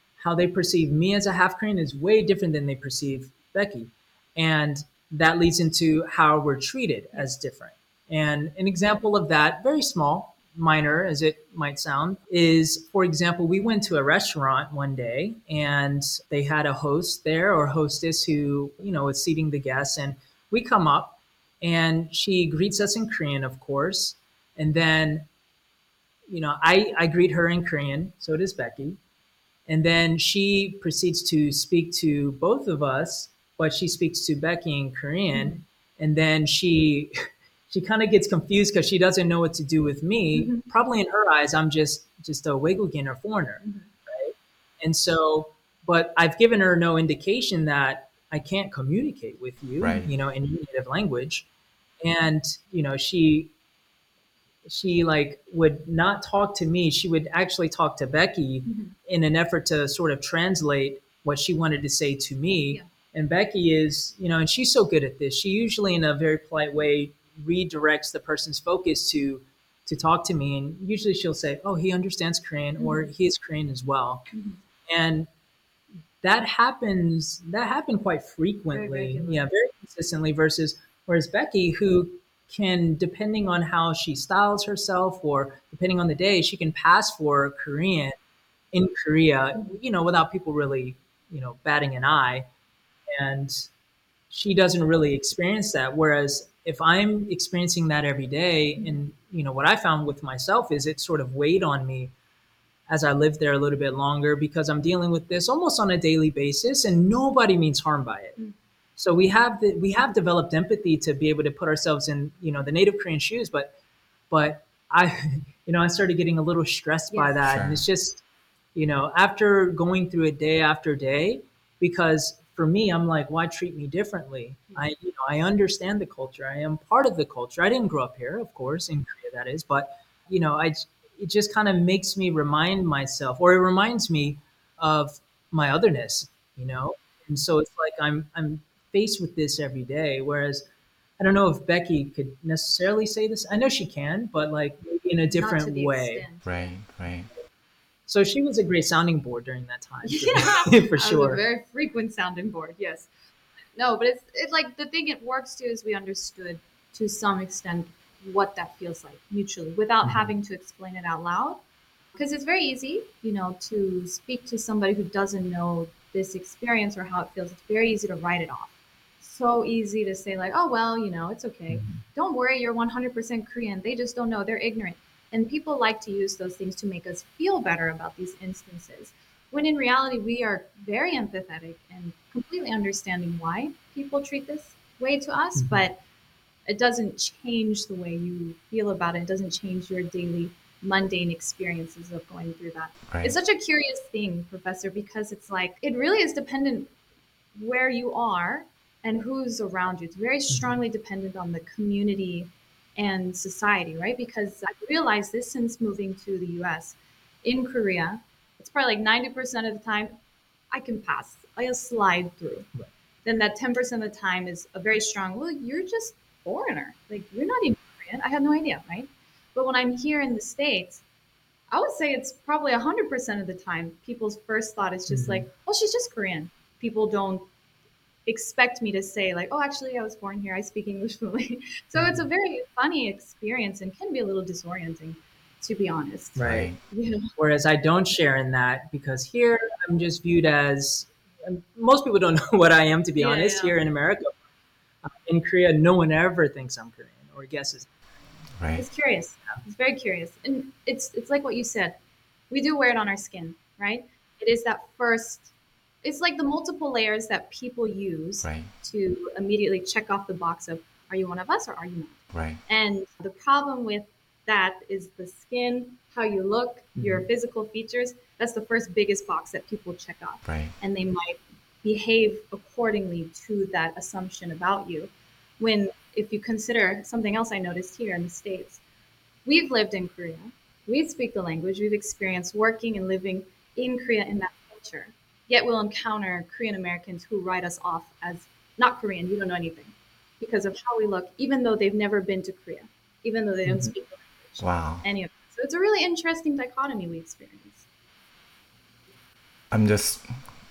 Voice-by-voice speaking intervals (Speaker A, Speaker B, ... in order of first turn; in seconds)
Speaker A: 0.2-25.3, 26.3-29.0, 29.7-51.5, 52.0-53.5, 54.6-74.3, 74.9-75.3, 76.2-88.2, 88.7-92.5, 93.1-93.7, 94.3-102.1, 102.9-108.4, 109.0-113.7, 114.3-118.2, 118.8-140.7, 141.2-146.3, 148.1-151.4, 160.0-160.3, 171.7-172.0, 185.6-185.8, 225.1-225.5, 232.0-232.2, 236.4-236.7, 237.4-244.3, 245.0-248.4, 267.0-267.2
Speaker B: 35.3-35.6, 40.4-40.6, 43.6-43.9, 58.7-58.9, 74.3-74.6, 78.7-79.5, 117.1-117.4, 145.3-146.5, 150.0-153.1, 153.8-161.6, 162.2-186.0, 186.7-196.9, 197.6-210.2, 210.7-212.7, 213.2-221.0, 221.7-227.5, 228.3-237.3, 243.2-243.8, 248.8-252.0, 252.5-255.5, 256.0-278.8, 279.5-297.9
Speaker C: 49.8-50.1, 117.4-117.8, 146.5-147.3, 193.1-193.3, 236.4-236.8, 248.6-248.9, 258.4-258.7, 262.3-262.6, 270.4-270.7, 294.6-295.1, 299.7-300.3